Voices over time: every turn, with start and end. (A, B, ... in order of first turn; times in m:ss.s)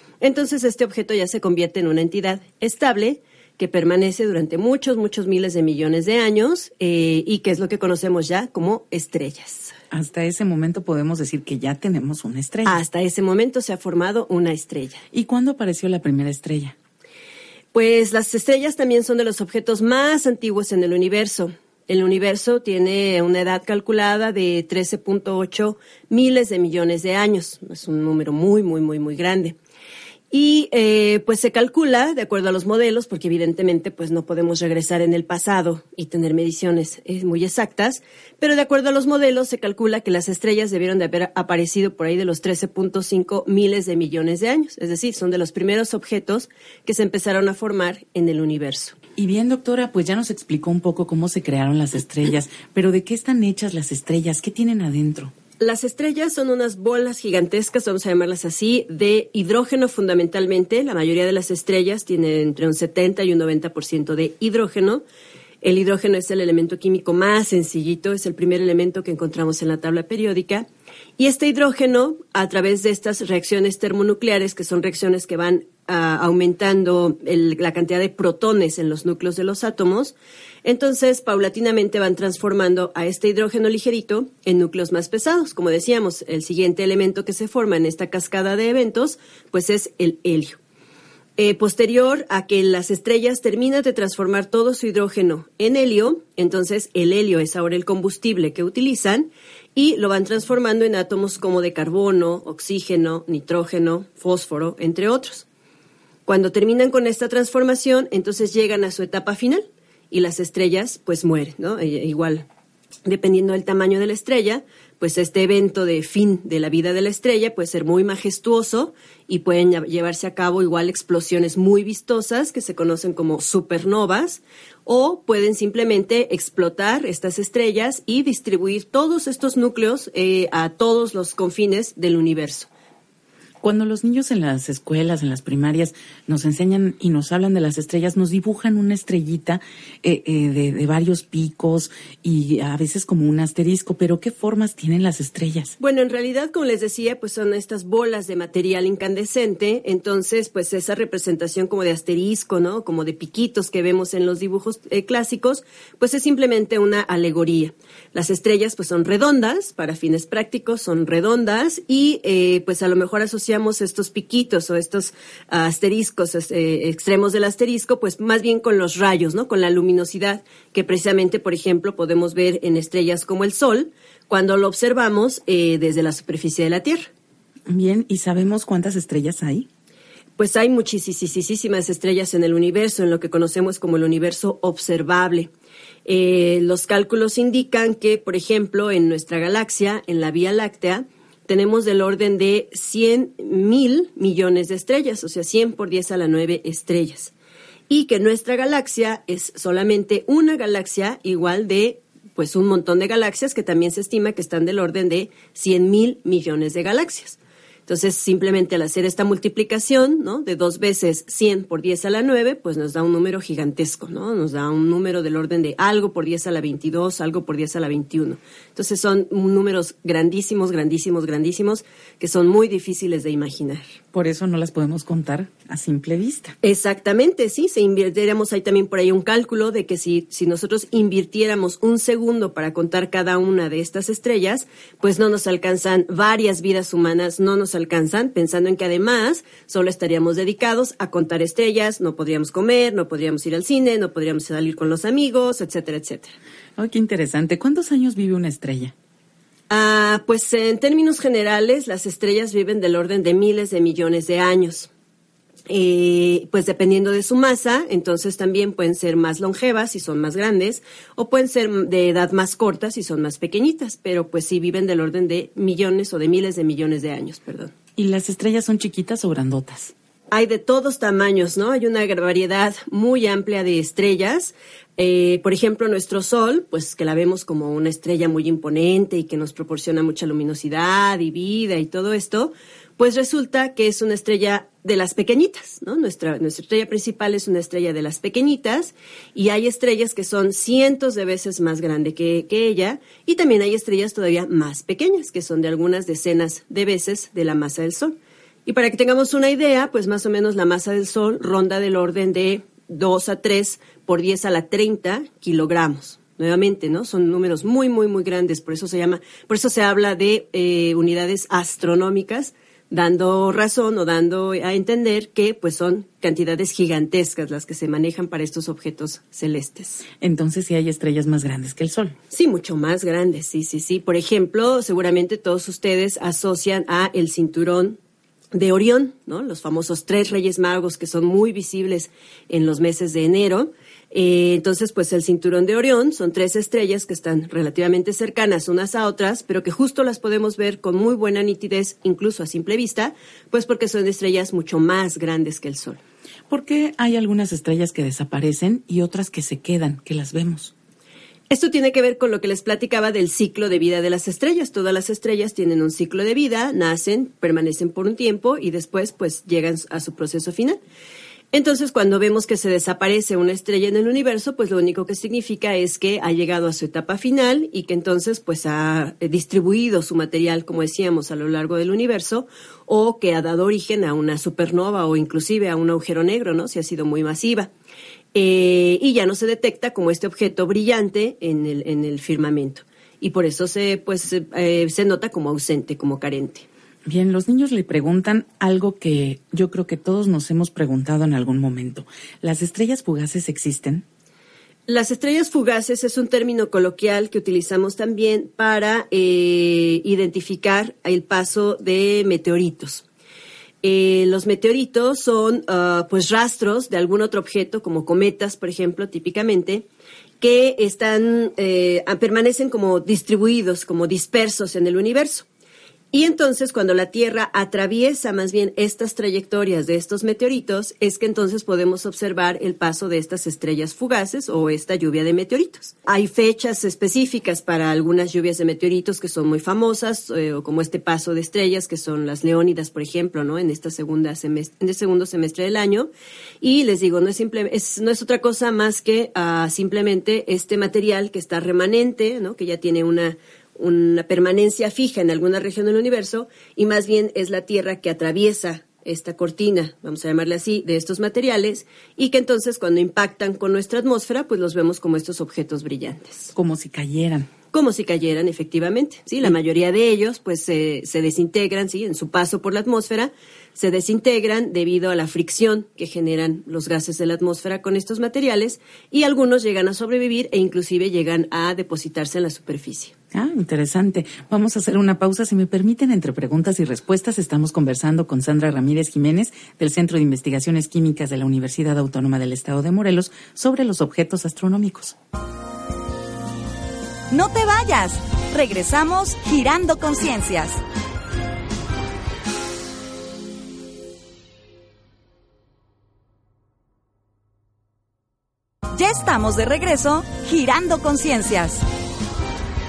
0:00.2-0:09.7 A
0:09.9-0:12.8 B
0:12.6-0:15.0 A
0:15.1-0:16.8 B
0:17.7-0:29.6 A
0:30.3-0:49.0 A
0:49.2-0:55.3 B
0:55.6-1:05.0 A
1:05.6-1:10.7 A
1:11.2-1:30.6 A
1:31.4-1:45.4 A
1:46.3-1:52.5 A
1:53.0-2:12.7 A
2:13.6-2:25.8 B
2:25.8-2:57.1 A
2:57.7-2:59.7 B
3:00.4-3:05.5 A
3:06.1-3:17.3 A
3:17.9-3:43.8 A
3:44.1-3:46.6 B
3:46.6-4:06.3 A
4:06.8-4:08.9 B
4:09.7-4:14.9 A
4:15.7-4:27.7 A
4:28.0-4:29.9 B
4:30.3-5:20.0 A
5:20.2-5:22.2 B
5:22.3-5:28.0 A
5:28.5-5:46.0 A
5:46.5-5:50.7 B
5:51.5-6:00.8 A
6:01.5-6:17.7 A
6:18.3-6:26.7 A
6:27.1-6:34.0 B
6:34.9-6:43.0 A
6:43.8-6:49.9 A
6:50.4-6:55.5 A
6:56.1-7:16.1 A
7:16.6-7:36.5 A
7:36.5-7:37.5 B
7:37.7-7:53.1 A
7:53.3-8:05.2 B
8:07.3-8:10.8 C
8:19.0-8:21.8 C